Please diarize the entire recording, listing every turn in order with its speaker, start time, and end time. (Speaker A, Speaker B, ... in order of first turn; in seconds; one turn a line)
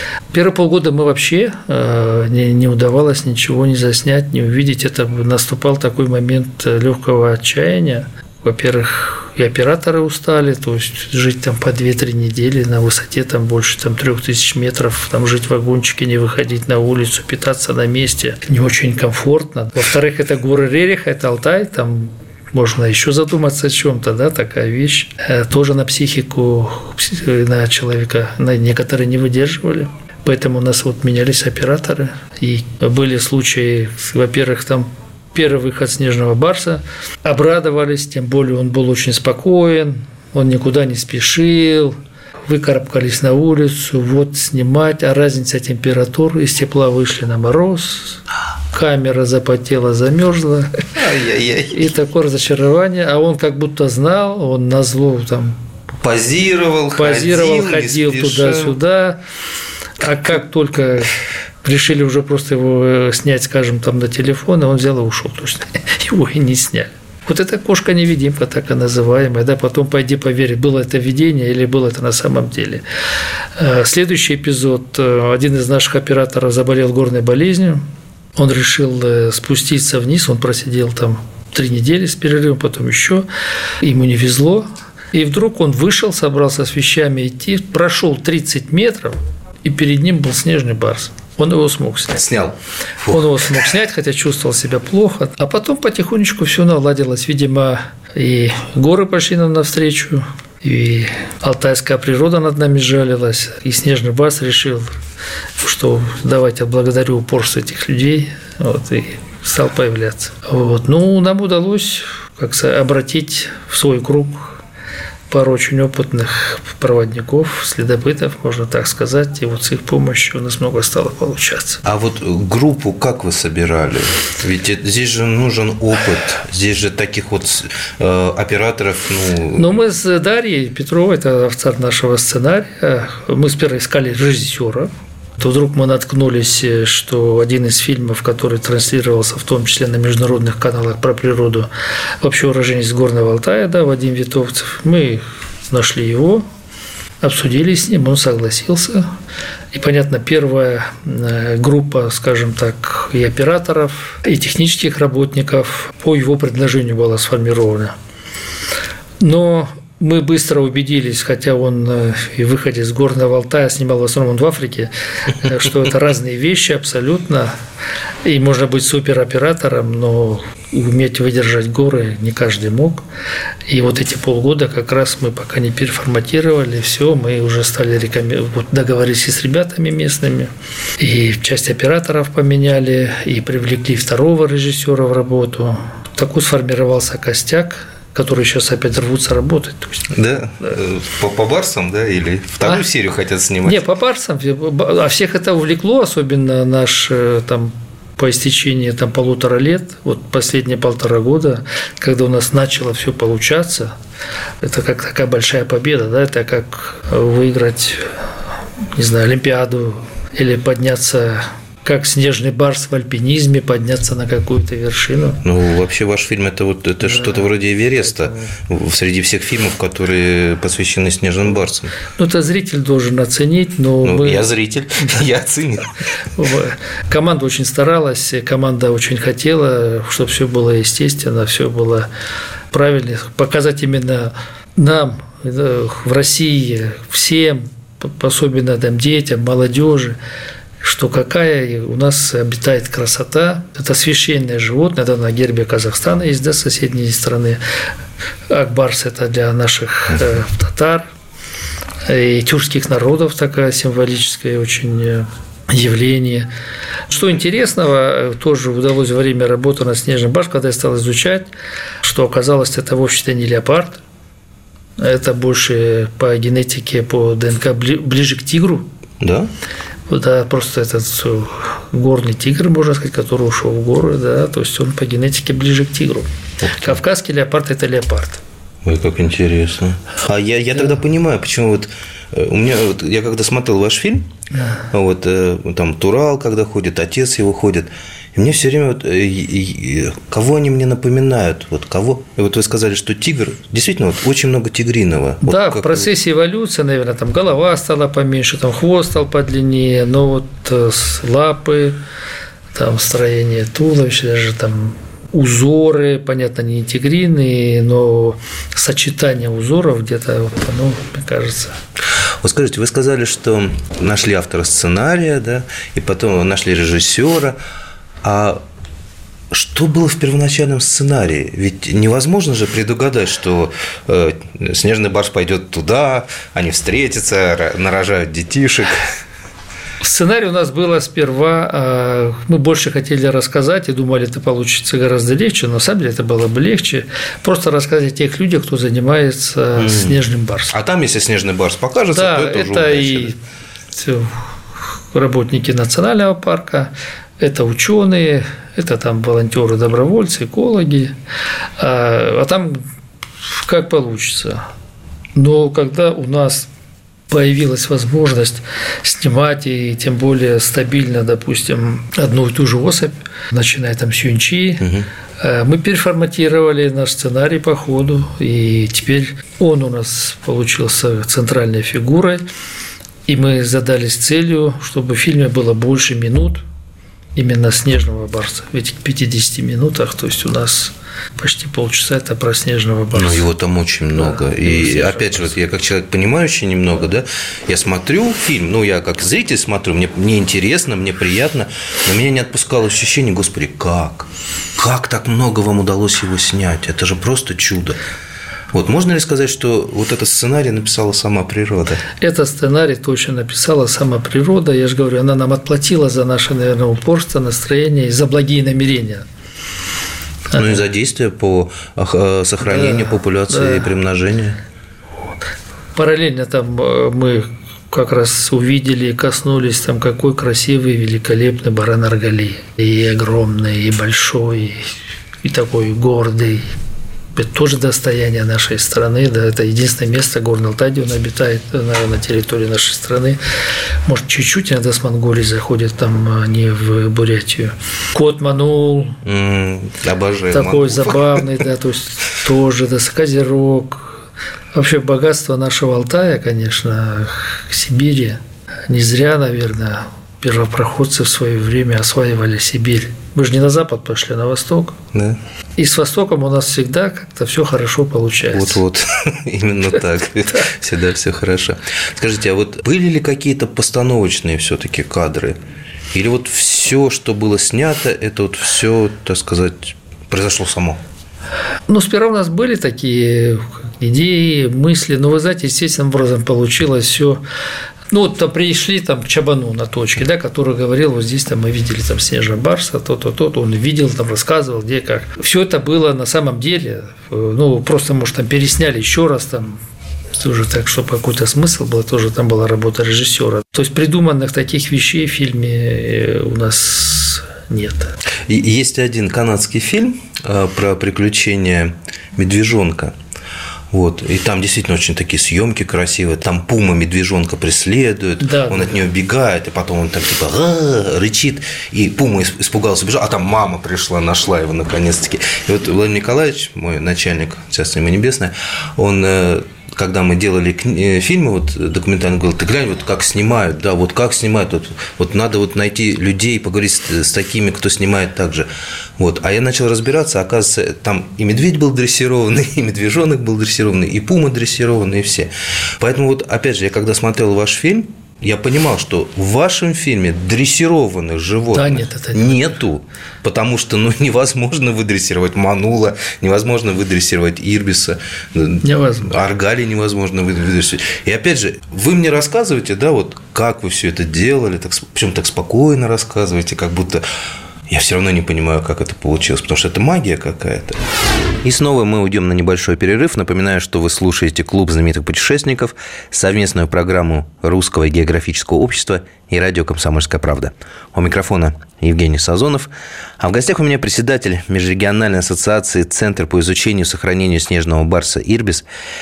Speaker A: 0.3-48.2
Speaker A: 48.7-50.9
Speaker B: 51.0-51.9
Speaker A: 51.7-55.6
Speaker B: 56.0-58.8
Speaker A: 56.9-59.2
Speaker A: 60.0-72.8
Speaker A: 73.6-77.8
Speaker A: 78.4-83.3
Speaker A: 83.8-92.2
Speaker B: 92.2-93.5
Speaker A: 93.1-105.0
Speaker A: 105.6-114.6
Speaker A: 115.3-121.8
Speaker B: 121.8-129.7
Speaker A: 129.6-141.7
Speaker A: 142.2-146.4
Speaker A: 147.2-149.1
Speaker A: 149.7-157.9
Speaker A: 159.2-167.5
Speaker A: 168.2-173.0
Speaker A: 173.7-190.1
Speaker B: 190.1-193.8
Speaker A: 193.6-203.9
Speaker A: 204.6-208.2
Speaker A: 208.9-215.4
Speaker B: 215.4-221.9
Speaker A: 217.0-217.4
Speaker A: 222.2-224.5
Speaker B: 224.0-225.9
Speaker A: 226.3-232.1
Speaker A: 232.7-240.2
Speaker A: 240.8-247.6
Speaker A: 248.5-251.1
Speaker A: 252.1-256.5
Speaker A: 257.1-261.5
Speaker A: 262.0-264.0
Speaker A: 265.0-268.9
Speaker B: 269.2-269.5
Speaker A: 270.1-278.4
Speaker B: 276.6-277.0
Speaker B: 278.8-284.3
Speaker A: 284.5-284.8
Speaker B: 284.9-296.1
Speaker A: 295.4-302.0
Speaker A: 302.7-311.8
Speaker B: 312.4-317.6
Speaker B: 318.2-318.6
Speaker B: 319.5-329.1
Speaker A: 330.0-340.8
Speaker B: 339.8-340.2
Speaker B: 340.7-343.4
Speaker A: 342.1-343.4
Speaker A: 343.9-344.4
Speaker A: 345.1-351.1
Speaker A: 351.8-352.9
Speaker A: 353.5-354.7
Speaker A: 355.4-356.7
Speaker A: 357.3-372.4
Speaker B: 364.8-365.1
Speaker A: 373.3-376.6
Speaker A: 377.4-383.5
Speaker B: 383.1-398.0
Speaker A: 384.1-385.5
Speaker B: 398.7-402.0
Speaker A: 402.2-409.3
Speaker A: 410.5-410.8
Speaker B: 410.5-414.6
Speaker A: 412.6-413.9
Speaker A: 415.9-424.9
Speaker A: 425.4-426.7
Speaker A: 427.4-433.4
Speaker A: 434.1-439.2
Speaker B: 439.2-441.4
Speaker A: 440.5-444.2
Speaker A: 444.7-455.0
Speaker B: 455.1-455.4
Speaker A: 455.8-458.8
Speaker B: 458.5-465.6
Speaker B: 466.1-471.0
Speaker A: 471.9-477.4
Speaker A: 478.1-489.8
Speaker A: 490.4-498.1
Speaker B: 498.5-503.2
Speaker B: 503.9-557.2
Speaker A: 508.4-509.0
Speaker A: 541.7-542.7
Speaker A: 548.8-549.3
Speaker B: 557.9-561.0
Speaker B: 561.6-578.9